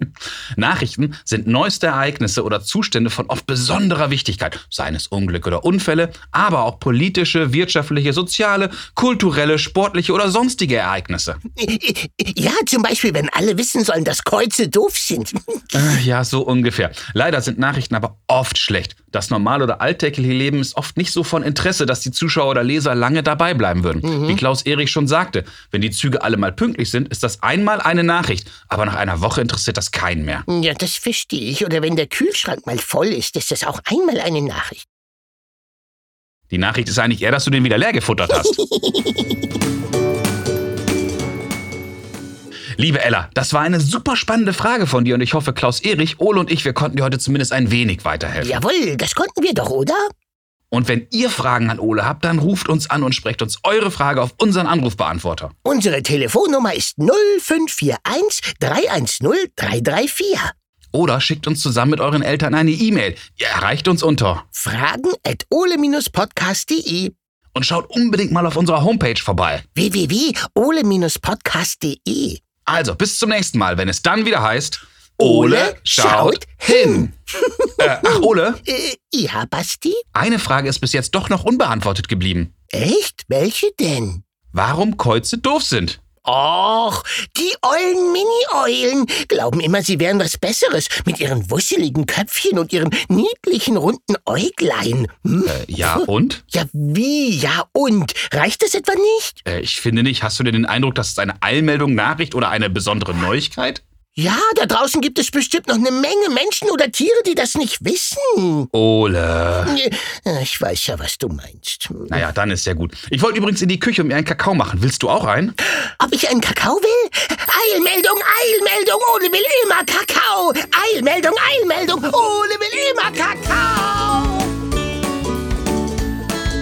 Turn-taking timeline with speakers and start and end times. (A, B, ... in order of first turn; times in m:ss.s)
0:00.6-0:11.4 A
0:11.6-0:15.8 B
0:15.7-0:30.4 A
0:24.0-0:24.4 B
0:30.5-0:34.9 B
0:36.5-0:38.6 A
0:38.5-0:39.2 B
0:42.8-0:48.6 A
0:48.4-0:50.0 B
0:50.7-0:55.5 A
0:55.6-1:00.5 B
1:00.9-1:04.4 A
1:04.5-1:07.2 B
1:07.6-1:09.6 A
1:09.8-1:12.4 B
1:12.7-1:17.1 A
1:15.2-1:20.0 B
1:17.8-1:18.6 A
1:20.1-1:22.5 A
1:22.7-1:24.2 B
1:24.5-1:26.0 A
1:26.2-1:39.4 B
1:35.5-1:36.4 A
1:39.4-1:43.8 A
1:44.2-1:48.7 B
1:48.7-1:49.8 A
1:49.7-1:52.2 B
1:52.1-1:55.6 A
1:55.7-2:04.5 B